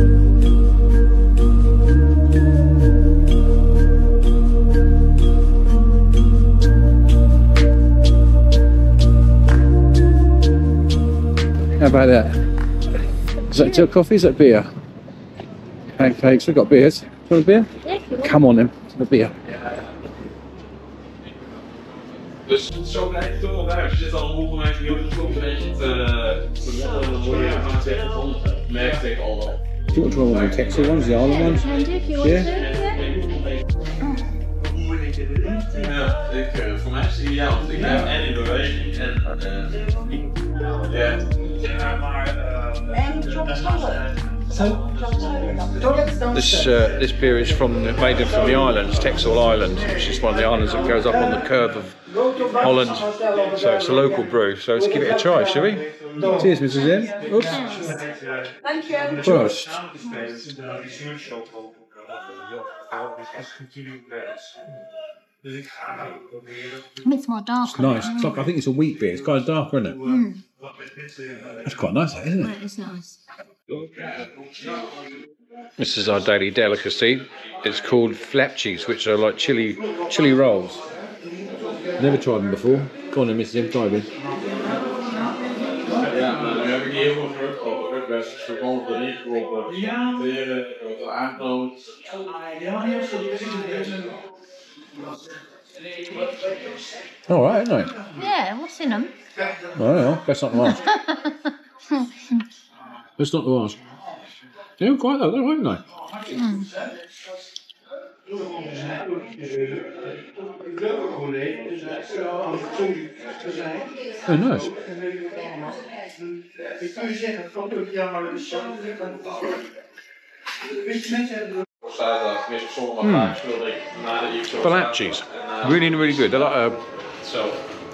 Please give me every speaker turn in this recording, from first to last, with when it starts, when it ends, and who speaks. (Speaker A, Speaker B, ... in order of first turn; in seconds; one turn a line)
Speaker A: 11.8-12.4
Speaker A: 13.5-14.7
Speaker A: 15.9-19.3
Speaker B: 17.8-18.5
Speaker C: 22.4-29.6
Speaker A: 29.9-32.5
Speaker C: 30.3-31.2
Speaker B: 31.2-33.0
Speaker C: 35.7-39.7
Speaker C: 40.8-41.2
Speaker A: 46.2-57.9
Speaker B: 57.2-58.0
Speaker A: 59.2-59.8
Speaker B: 67.0-68.4
Speaker A: 67.7-70.0
Speaker B: 70.0-70.4
Speaker A: 71.5-72.5
Speaker B: 72.4-73.2
Speaker A: 75.8-80.8
Speaker A: 82.0-84.1
Speaker C: 85.9-91.9
Speaker C: 92.8-94.1
Speaker A: 97.3-98.0
Speaker B: 98.1-99.1
Speaker A: 99.7-100.8
Speaker B: 100.6-102.4
Speaker A: 103.2-103.8
Speaker A: 104.8-105.8
Speaker B: 106.3-106.7
Speaker A: 114.2-114.8
Speaker C: 121.8-127.6
Speaker A: 123.0-123.4
Speaker A: 124.6-126.8